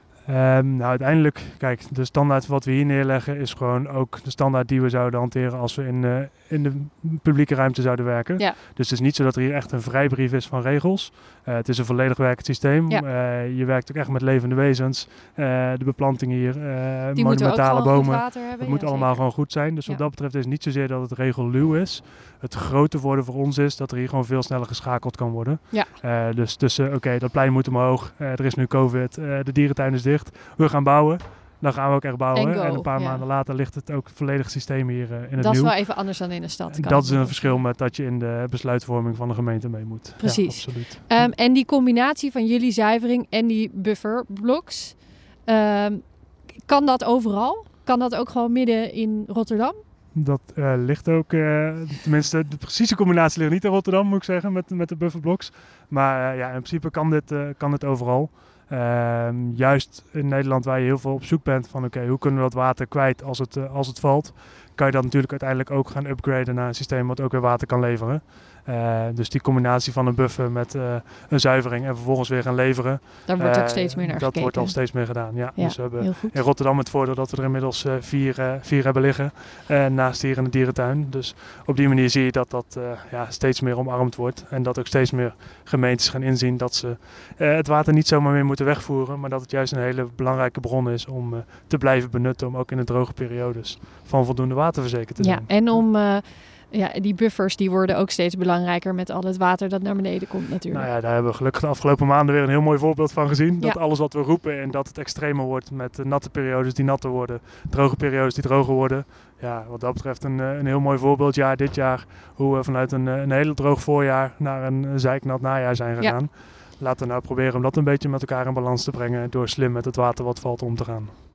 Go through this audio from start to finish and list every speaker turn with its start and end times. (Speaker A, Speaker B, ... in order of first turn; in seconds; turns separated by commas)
Speaker A: 0.2-36.1, Speaker B: 17.1-20.0, Speaker B: 32.3-33.2, Speaker B: 35.4-37.6, Speaker A: 36.7-41.3, Speaker B: 40.2-46.1, Speaker B: 46.6-49.8, Speaker A: 50.1-95.9, Speaker B: 73.2-76.4, Speaker B: 95.2-100.9, Speaker A: 100.7-121.1